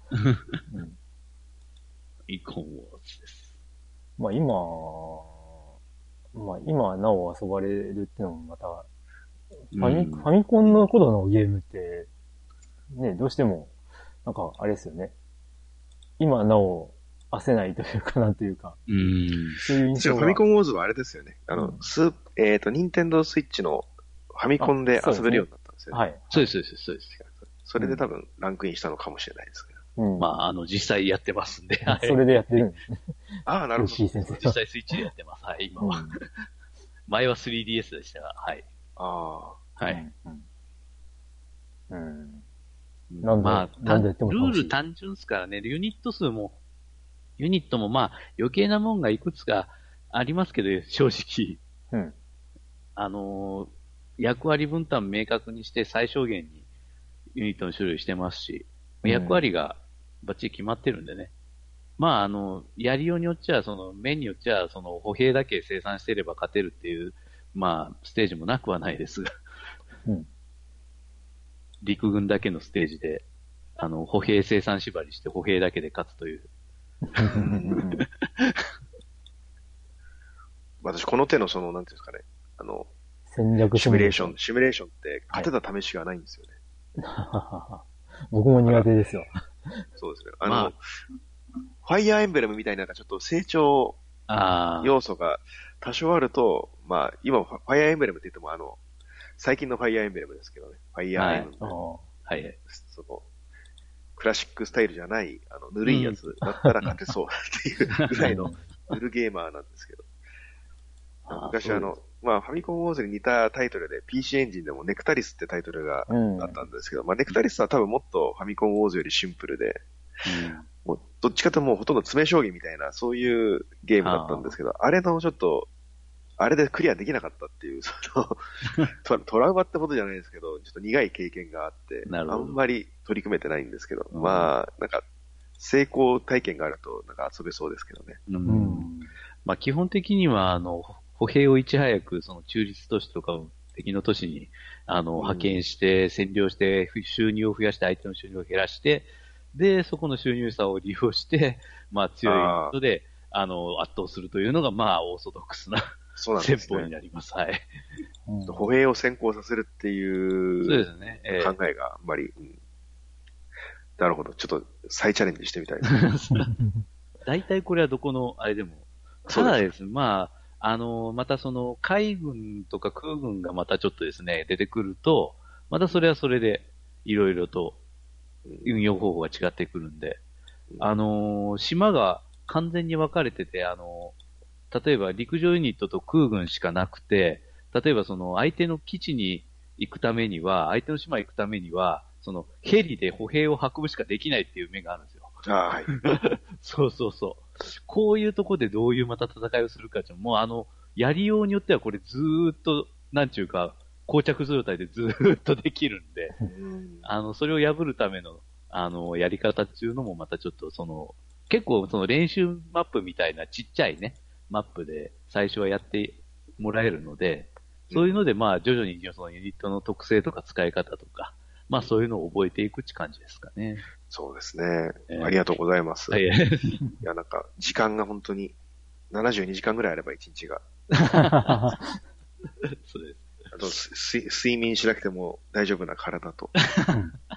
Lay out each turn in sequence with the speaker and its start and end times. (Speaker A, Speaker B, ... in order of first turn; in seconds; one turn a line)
Speaker A: 0.2-0.5
Speaker B: 0.7-1.0
Speaker A: 2.3-3.5
Speaker B: 4.2-5.4
Speaker B: 6.3-8.9
Speaker B: 9.7-12.1
Speaker A: 9.7-10.3
Speaker B: 12.9-13.7
Speaker B: 14.2-15.1
Speaker B: 16.2-18.8
Speaker A: 18.9-19.6
Speaker B: 19.6-20.4
Speaker C: 19.9-26.0
Speaker B: 21.5-21.8
Speaker B: 24.6-26.5
Speaker A: 26.3-27.2
Speaker C: 27.2-29.8
Speaker B: 27.8-28.0
Speaker B: 30.0-30.3
Speaker A: 30.2-32.6
Speaker B: 31.9-33.1
Speaker C: 33.5-34.0
Speaker B: 33.8-35.0
Speaker A: 34.3-36.2
Speaker B: 35.8-36.2
Speaker A: 37.1-38.6
Speaker C: 39.0-39.6
Speaker A: 39.8-40.0
Speaker B: 39.9-40.4
Speaker B: 41.9-42.4
Speaker A: 43.1-46.6
Speaker B: 43.2-44.7
Speaker A: 47.4-51.6
Speaker A: 53.0-56.6
Speaker A: 57.3-61.3
Speaker B: 59.0-59.4
Speaker A: 62.0-69.3
Speaker A: 71.8-73.2
Speaker A: 73.8-76.5
Speaker B: 77.1-78.0
Speaker C: 77.3-77.8
Speaker A: 78.2-78.7
Speaker C: 80.8-82.9
Speaker B: 83.3-84.3
Speaker C: 83.7-86.5
Speaker B: 87.0-89.8
Speaker C: 90.0-90.8
Speaker A: 90.4-90.7
Speaker C: 91.8-94.0
Speaker A: 94.3-95.0
Speaker C: 94.8-98.8
Speaker C: 99.4-101.8
Speaker A: 101.2-101.5
Speaker B: 101.6-102.0
Speaker A: 102.2-102.6
Speaker C: 102.7-103.2
Speaker C: 104.2-110.0
Speaker A: 105.8-106.7
Speaker A: 108.1-108.4
Speaker B: 108.2-108.6
Speaker A: 111.3-111.9
Speaker C: 111.3-119.8
Speaker B: 116.1-116.6
Speaker A: 120.2-120.7
Speaker C: 120.8-125.7
Speaker A: 124.0-124.5
Speaker C: 126.4-128.4
Speaker C: 129.0-135.0
Speaker A: 132.1-132.6
Speaker A: 134.1-134.5
Speaker C: 135.6-138.2
Speaker A: 138.3-138.9
Speaker B: 138.4-139.1
Speaker A: 139.4-157.7
Speaker C: 145.2-145.6
Speaker C: 152.2-152.7
Speaker C: 156.2-156.9
Speaker B: 158.3-158.7
Speaker C: 158.4-162.5
Speaker A: 160.6-161.5
Speaker C: 164.0-166.0
Speaker A: 165.9-166.5
Speaker B: 166.5-166.8
Speaker A: 167.2-177.8
Speaker C: 169.3-169.7
Speaker A: 178.6-180.2
Speaker A: 180.8-184.1
Speaker A: 184.7-195.3
Speaker C: 195.4-196.0
Speaker A: 195.9-206.3
Speaker C: 206.5-207.1
Speaker A: 207.0-223.9
Speaker C: 217.9-218.2
Speaker C: 224.1-226.2
Speaker A: 225.1-225.4
Speaker A: 226.1-226.8
Speaker C: 227.0-228.5
Speaker C: 229.1-230.6
Speaker A: 231.0-231.8
Speaker B: 231.1-231.8
Speaker A: 232.7-233.3
Speaker C: 233.5-236.5
Speaker A: 236.6-237.0